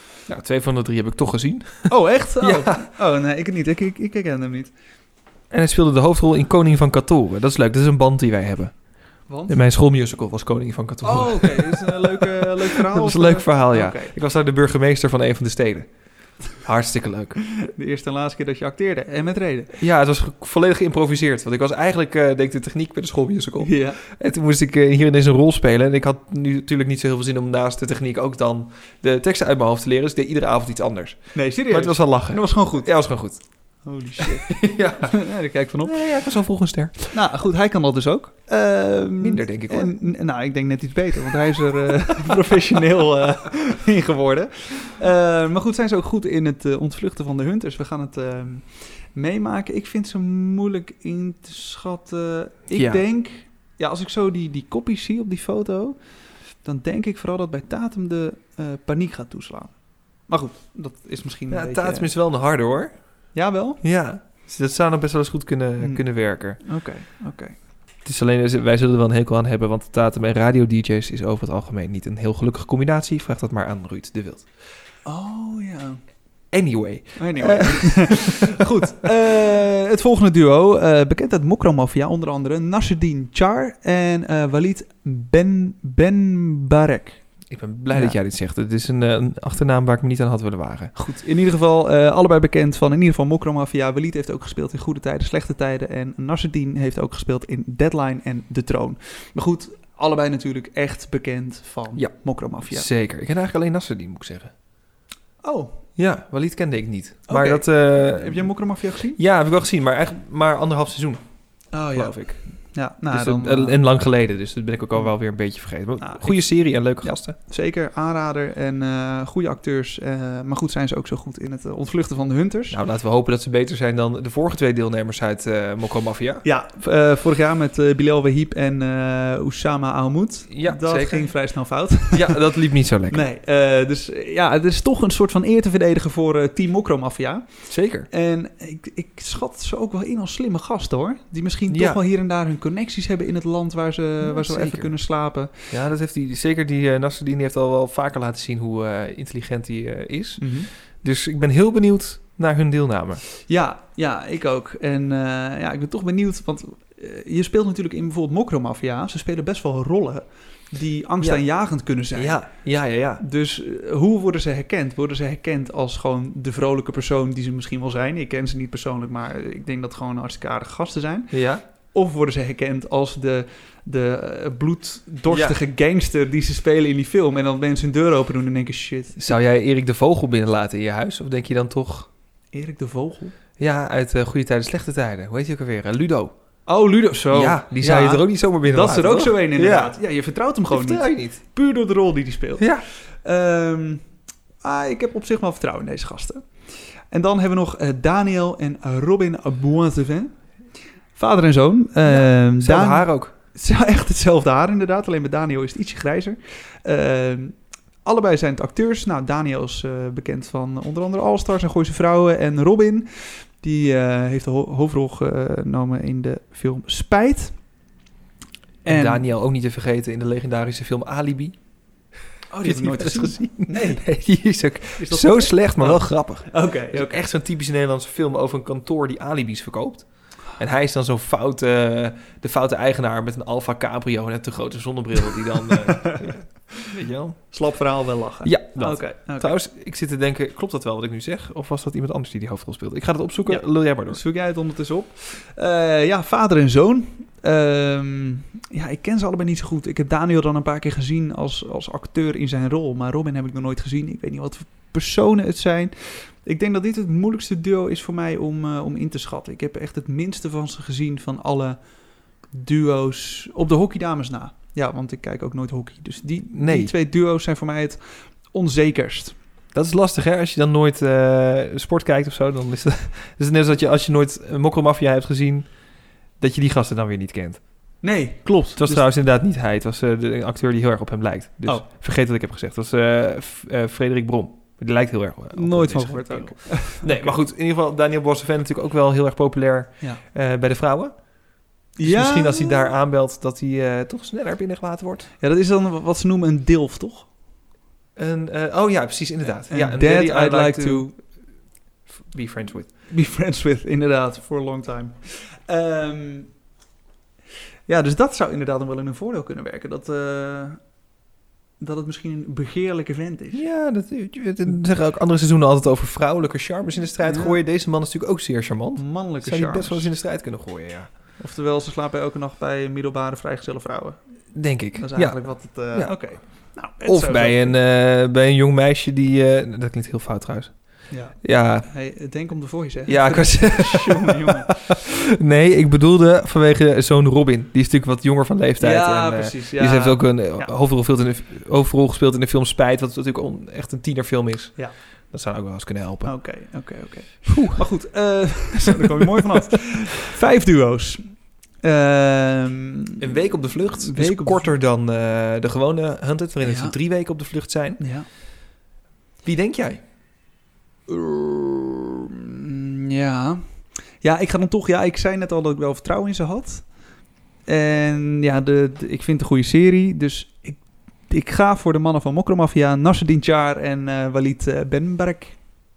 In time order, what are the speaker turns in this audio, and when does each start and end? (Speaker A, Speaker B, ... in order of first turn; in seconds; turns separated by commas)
Speaker A: 0.3-2.9, Speaker B: 1.9-4.7, Speaker A: 5.5-8.7, Speaker A: 9.5-15.9, Speaker B: 11.0-14.1, Speaker A: 16.6-17.4, Speaker B: 17.5-19.7, Speaker A: 19.8-33.4, Speaker B: 23.7-24.0, Speaker B: 31.4-32.9, Speaker B: 33.9-34.5, Speaker A: 34.2-35.2, Speaker B: 35.0-35.9, Speaker A: 35.8-37.2, Speaker B: 37.3-56.0, Speaker A: 39.2-39.9, Speaker A: 52.7-53.0, Speaker B: 56.6-59.7, Speaker B: 60.3-62.0, Speaker A: 61.5-62.9, Speaker B: 63.4-63.8, Speaker A: 63.8-66.6, Speaker B: 66.6-67.5, Speaker A: 68.0-74.4, Speaker B: 75.0-76.0, Speaker A: 76.5-78.6, Speaker B: 77.2-87.1, Speaker A: 87.5-90.9, Speaker B: 91.0-102.9, Speaker A: 102.0-104.5, Speaker B: 105.4-105.8, Speaker A: 106.0-108.5, Speaker B: 107.3-107.6, Speaker B: 108.2-109.2, Speaker A: 109.2-111.2, Speaker B: 111.7-113.8, Speaker A: 111.9-112.5, Speaker A: 113.1-117.3, Speaker B: 116.0-122.7, Speaker A: 122.7-126.4, Speaker B: 126.5-132.3, Speaker A: 130.5-131.3, Speaker A: 132.1-133.2, Speaker B: 133.1-137.4, Speaker A: 137.7-138.1, Speaker B: 138.1-145.5, Speaker A: 141.7-142.0, Speaker A: 144.2-144.9, Speaker A: 145.5-153.2, Speaker B: 150.4-150.6, Speaker B: 153.5-162.4, Speaker A: 162.0-163.2, Speaker B: 163.2-171.3, Speaker A: 171.3-171.6, Speaker B: 172.0-179.3, Speaker A: 175.3-175.6, Speaker A: 179.2-182.1, Speaker B: 182.5-183.3, Speaker A: 183.6-186.3, Speaker B: 186.7-192.6, Speaker A: 187.3-190.0, Speaker A: 190.7-191.4, Speaker A: 192.6-192.8, Speaker B: 193.2-194.0, Speaker B: 194.6-196.4, Speaker B: 197.1-200.3, Speaker B: 201.2-203.1, Speaker A: 202.0-203.3, Speaker B: 203.6-207.5, Speaker B: 208.1-213.1, Speaker B: 213.6-217.5, Speaker A: 218.9-221.6, Speaker B: 218.9-219.2, Speaker B: 222.5-224.0, Speaker A: 222.6-237.5, Speaker B: 225.0-227.2, Speaker B: 237.5-239.5, Speaker A: 238.4-244.2, Speaker B: 243.5-261.8, Speaker B: 262.5-268.0, Speaker A: 266.5-266.9, Speaker B: 268.5-269.3, Speaker A: 269.7-275.8, Speaker A: 276.4-277.6, Speaker B: 278.0-279.0, Speaker A: 278.8-291.2, Speaker B: 285.6-287.4, Speaker A: 292.0-295.3, Speaker B: 292.1-292.7, Speaker B: 295.4-297.2, Speaker A: 298.1-301.1, Speaker B: 299.7-301.1, Speaker A: 302.3-302.9, Speaker B: 303.1-306.5, Speaker B: 307.9-310.8, Speaker B: 311.8-313.6, Speaker A: 313.5-321.1, Speaker B: 317.3-317.6, Speaker B: 319.0-320.1, Speaker B: 321.4-324.2, Speaker A: 324.5-326.2, Speaker B: 325.0-327.7, Speaker A: 327.0-331.9, Speaker B: 331.1-334.7, Speaker A: 333.1-346.3, Speaker B: 338.9-340.7, Speaker B: 346.2-351.3, Speaker A: 347.5-347.8, Speaker B: 351.8-353.2, Speaker A: 353.2-358.0, Speaker B: 354.0-354.6, Speaker B: 356.6-356.9, Speaker B: 358.0-358.2, Speaker A: 359.4-360.0, Speaker B: 361.1-363.6, Speaker B: 364.2-366.8, Speaker B: 367.7-370.8, Speaker B: 371.3-375.5